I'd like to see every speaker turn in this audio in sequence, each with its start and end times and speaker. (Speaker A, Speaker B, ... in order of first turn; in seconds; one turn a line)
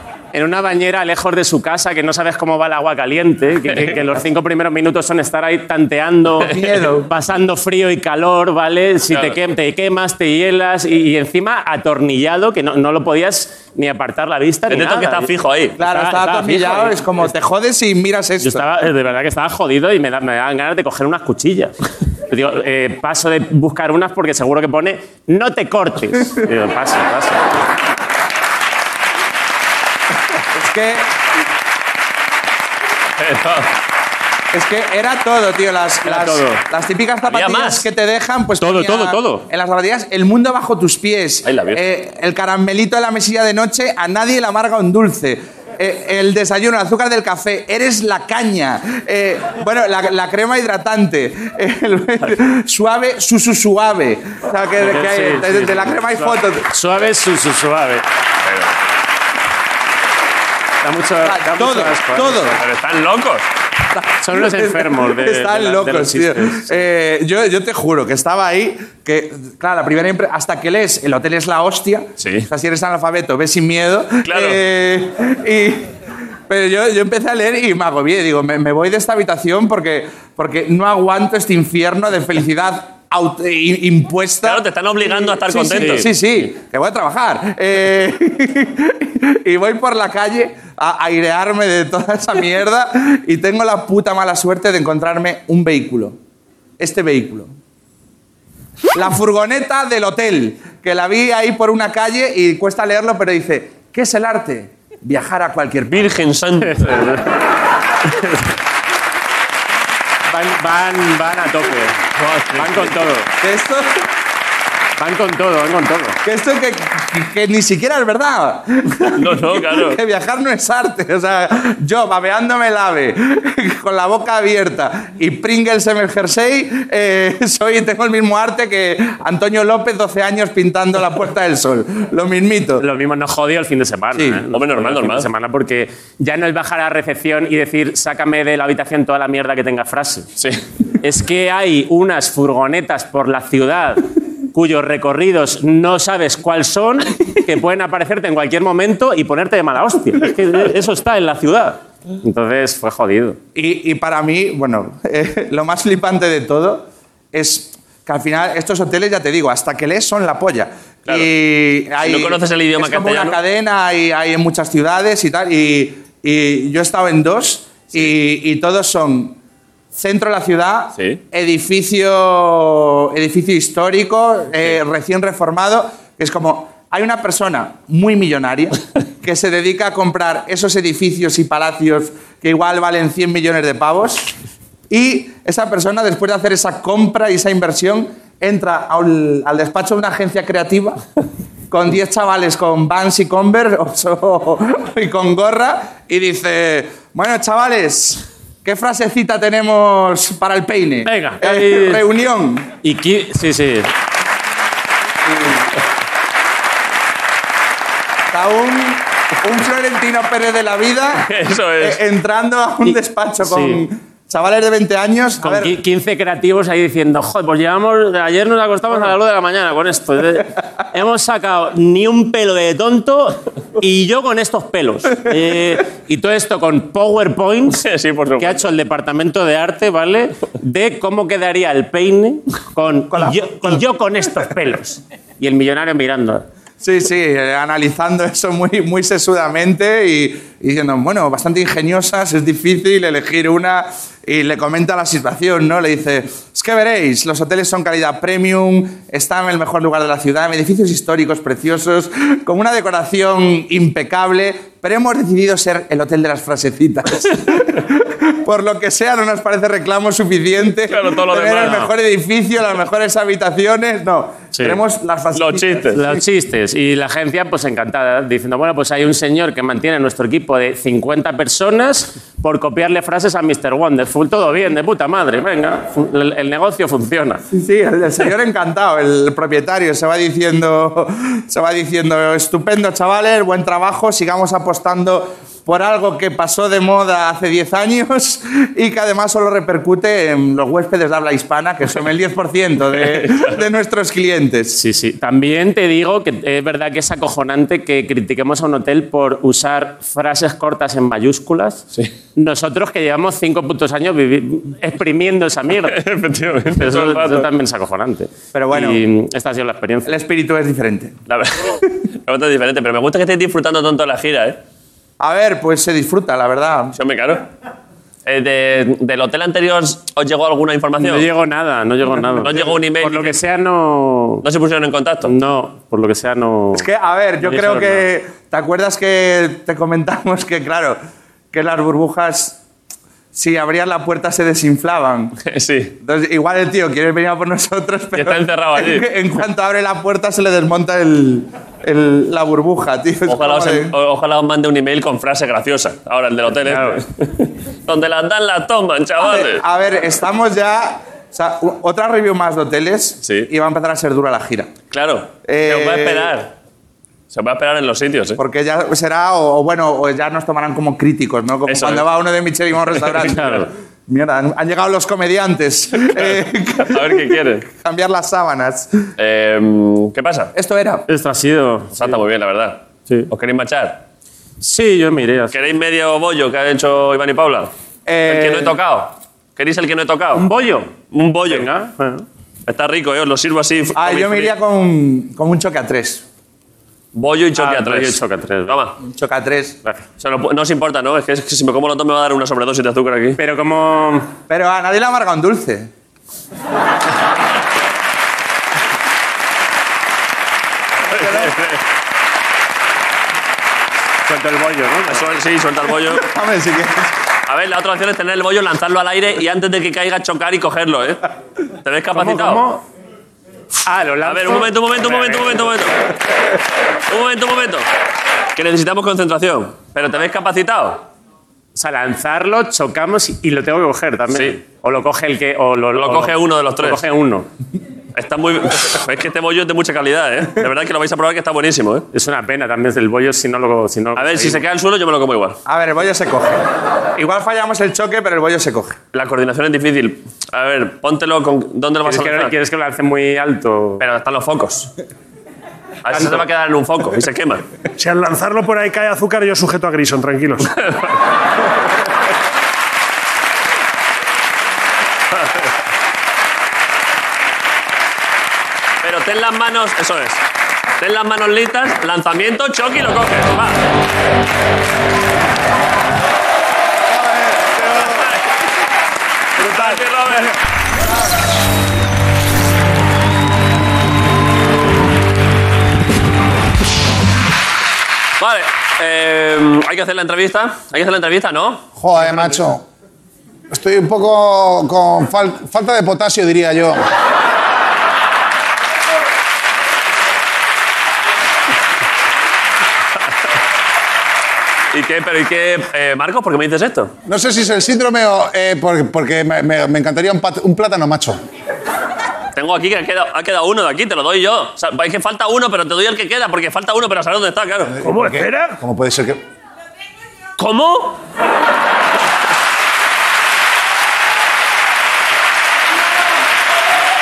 Speaker A: 0.3-17.3
Speaker B: 3.6-4.0
Speaker C: 6.4-7.1
Speaker B: 9.1-9.4
Speaker B: 14.7-15.8
Speaker C: 15.8-18.6
Speaker A: 18.4-21.7
Speaker A: 22.3-27.4
Speaker C: 30.5-31.1
Speaker B: 33.2-33.7
Speaker C: 34.5-56.7
Speaker A: 36.0-36.6
Speaker B: 37.3-37.9
Speaker A: 38.6-39.5
Speaker B: 41.4-41.8
Speaker A: 54.8-58.0
Speaker B: 58.4-58.7
Speaker A: 60.8-62.6
Speaker C: 61.2-62.6
Speaker B: 62.6-63.4
Speaker C: 63.9-75.9
Speaker A: 64.2-66.7
Speaker B: 72.2-72.5
Speaker B: 74.2-74.6
Speaker C: 76.5-96.2
Speaker B: 84.4-86.1
Speaker A: 85.8-86.0
Speaker C: 96.8-97.5
Speaker C: 98.9-106.1
Speaker B: 105.9-107.3
Speaker A: 106.7-107.0
Speaker A: 108.1-108.5
Speaker A: 110.3-112.0
Speaker B: 112.2-113.0
Speaker A: 112.5-113.3
Speaker C: 113.4-114.0
Speaker A: 115.0-116.2
Speaker C: 116.2-132.8
Speaker B: 119.2-120.0
Speaker A: 132.8-140.3
Speaker C: 134.1-134.4
Speaker B: 134.5-135.3
Speaker A: 141.0-153.4
Speaker C: 153.5-169.3
Speaker B: 162.0-163.4
Speaker C: 169.9-184.3
Speaker C: 184.9-191.0
Speaker C: 191.7-202.7
Speaker A: 201.0-202.0
Speaker A: 202.8-203.9
Speaker C: 205.3-205.6
Speaker C: 208.3-211.3
Speaker B: 211.2-212.0
Speaker C: 211.8-215.8
Speaker A: 212.8-213.8
Speaker A: 215.4-227.8
Speaker B: 227.7-228.7
Speaker A: 228.4-236.4
Speaker C: 233.1-233.8
Speaker C: 236.8-266.2
Speaker B: 260.9-261.9
Speaker A: 261.6-261.9
Speaker A: 264.5-264.8
Speaker B: 265.3-266.0
Speaker A: 265.9-277.4
Speaker C: 277.5-294.8
Speaker B: 293.1-293.4
Speaker A: 294.7-301.8
Speaker A: 302.3-306.0
Speaker B: 305.8-307.5
Speaker A: 306.8-310.1
Speaker C: 308.5-309.0
Speaker C: 310.0-311.1
Speaker B: 311.3-314.6
Speaker C: 315.2-316.9
Speaker B: 316.9-317.4
Speaker B: 318.2-321.3
Speaker A: 321.0-324.4
Speaker B: 322.4-323.4
Speaker B: 324.4-325.3
Speaker A: 325.2-326.9
Speaker C: 326.7-331.0
Speaker A: 327.4-328.1
Speaker C: 331.5-332.6
Speaker C: 333.3-335.4
Speaker B: 335.4-335.9
Speaker C: 336.0-343.9
Speaker B: 338.1-339.1
Speaker B: 343.3-349.6
Speaker A: 346.6-347.0
Speaker C: 349.2-354.7
Speaker B: 353.2-353.5
Speaker B: 354.9-356.5
Speaker C: 355.4-356.4
Speaker B: 357.3-358.4
Speaker C: 358.4-369.0
Speaker B: 361.7-362.1
Speaker B: 363.2-363.6
Speaker A: 363.3-363.6
Speaker B: 366.1-367.7
Speaker B: 369.2-370.5
Speaker C: 370.5-371.1
Speaker A: 371.1-372.1
Speaker B: 371.9-374.0
Speaker A: 374.6-375.6
Speaker B: 375.5-377.7
Speaker C: 378.1-378.7
Speaker B: 378.3-380.4
Speaker A: 380.3-380.9
Speaker B: 381.1-381.7
Speaker A: 381.4-382.2
Speaker B: 382.7-384.5
Speaker C: 383.9-386.2
Speaker B: 387.1-388.9
Speaker A: 387.6-388.8
Speaker C: 389.0-389.8
Speaker B: 390.2-393.4
Speaker A: 393.4-394.3
Speaker C: 394.5-395.9
Speaker C: 401.1-401.5
Speaker B: 401.1-401.8
Speaker A: 404.2-405.2
Speaker B: 405.1-406.3
Speaker C: 406.1-407.1
Speaker B: 407.5-411.2
Speaker B: 411.8-412.6
Speaker A: 412.1-412.8
Speaker A: 413.8-415.6
Speaker B: 414.2-416.0
Speaker B: 417.1-417.9
Speaker B: 418.6-421.0
Speaker A: 421.7-427.5
Speaker B: 424.3-424.6
Speaker B: 425.9-427.0
Speaker B: 428.1-432.1
Speaker A: 432.1-434.6
Speaker B: 434.1-435.6
Speaker C: 435.6-436.6
Speaker C: 437.1-439.0
Speaker B: 439.1-442.6
Speaker A: 442.0-444.0
Speaker B: 444.0-444.9
Speaker B: 446.0-447.6
Speaker A: 446.1-446.4
Speaker D: 448.0-450.7
Speaker B: 450.7-451.1
Speaker B: 459.0-460.4
Speaker B: 461.0-463.9
Speaker C: 467.1-468.2
Speaker B: 467.9-468.5
Speaker B: 469.6-470.5
Speaker B: 478.4-481.9
Speaker E: 482.0-482.8
Speaker E: 483.7-487.0
Speaker B: 494.9-497.1
Speaker E: 497.2-501.4
Speaker B: 502.5-508.0
Speaker E: 507.9-509.4
Speaker D: 508.0-508.8
Speaker B: 510.6-511.2